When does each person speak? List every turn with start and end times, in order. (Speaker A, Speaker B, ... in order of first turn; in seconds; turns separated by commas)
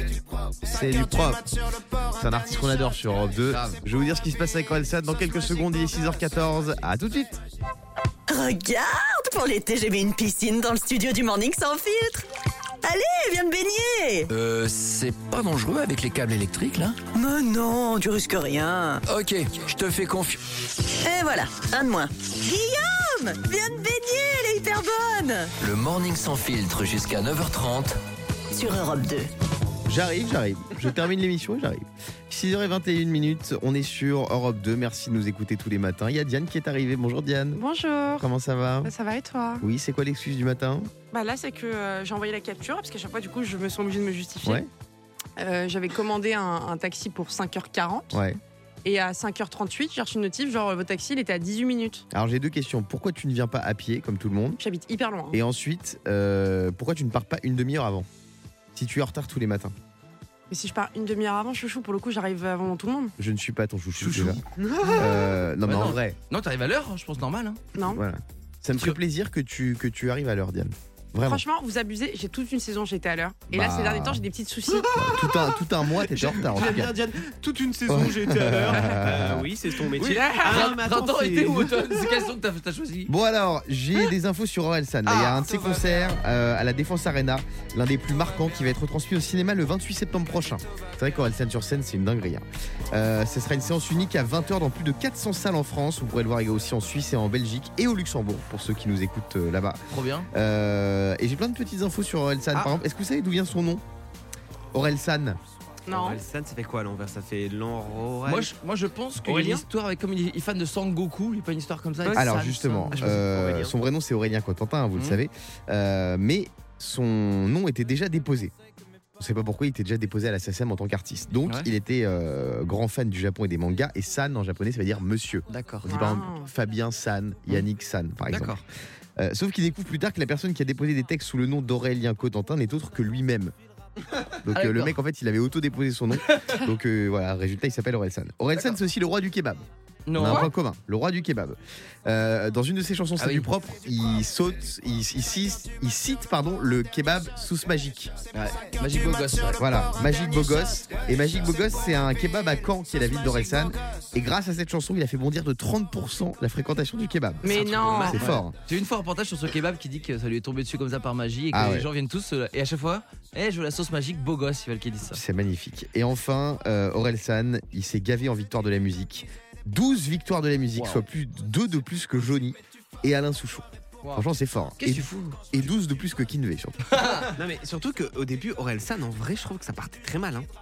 Speaker A: 0.6-7.4, Speaker B: 3.5-3.8, Speaker C: 8.3-12.3, Speaker C: 12.8-14.3, Speaker D: 14.3-17.1, Speaker C: 17.1-19.0, Speaker D: 19.1-20.4, Speaker C: 21.0-25.5, Speaker D: 25.6-27.9, Speaker C: 28.5-29.3, Speaker A: 29.9-37.6, Speaker E: 37.5-38.3, Speaker A: 38.2-38.9, Speaker E: 38.8-39.6, Speaker A: 39.6-40.9, Speaker E: 41.1-44.6, Speaker E: 45.4-48.2, Speaker A: 48.1-48.4, Speaker E: 48.9-52.0, Speaker A: 52.1-54.6, Speaker E: 54.6-55.4, Speaker A: 55.3-58.1, Speaker A: 58.8-59.7, Speaker E: 60.5-63.1, Speaker A: 63.2-64.4, Speaker F: 64.0-65.2, Speaker A: 65.0-66.2, Speaker B: 65.7-67.6, Speaker E: 67.8-68.0, Speaker A: 67.9-71.4, Speaker E: 71.2-74.9, Speaker A: 73.5-74.2, Speaker F: 74.8-81.9, Speaker A: 74.9-77.0, Speaker A: 77.9-79.5, Speaker B: 80.0-83.1, Speaker E: 80.0-80.7, Speaker A: 83.1-103.8, Speaker B: 85.1-85.6, Speaker B: 99.9-100.3, Speaker A: 104.7-105.4, Speaker F: 105.9-108.5, Speaker E: 105.9-106.2, Speaker B: 108.3-113.2, Speaker F: 109.2-109.7, Speaker A: 112.1-118.5, Speaker F: 112.9-113.7, Speaker B: 115.0-115.2, Speaker A: 119.2-128.6, Speaker B: 125.5-125.9, Speaker E: 125.9-126.5, Speaker B: 128.3-128.6, Speaker A: 129.2-133.5, Speaker A: 134.4-148.1, Speaker B: 134.5-135.0, Speaker B: 136.3-136.6, Speaker B: 140.1-140.5, Speaker B: 143.2-143.5, Speaker B: 148.3-149.6, Speaker A: 149.6-158.6, Speaker E: 157.4-158.2, Speaker F: 157.5-158.2, Speaker B: 158.2-165.2, Speaker A: 161.5-161.9, Speaker A: 165.1-177.1, Speaker B: 170.8-171.0, Speaker B: 174.0-175.4, Speaker B: 176.9-177.3, Speaker F: 177.3-180.5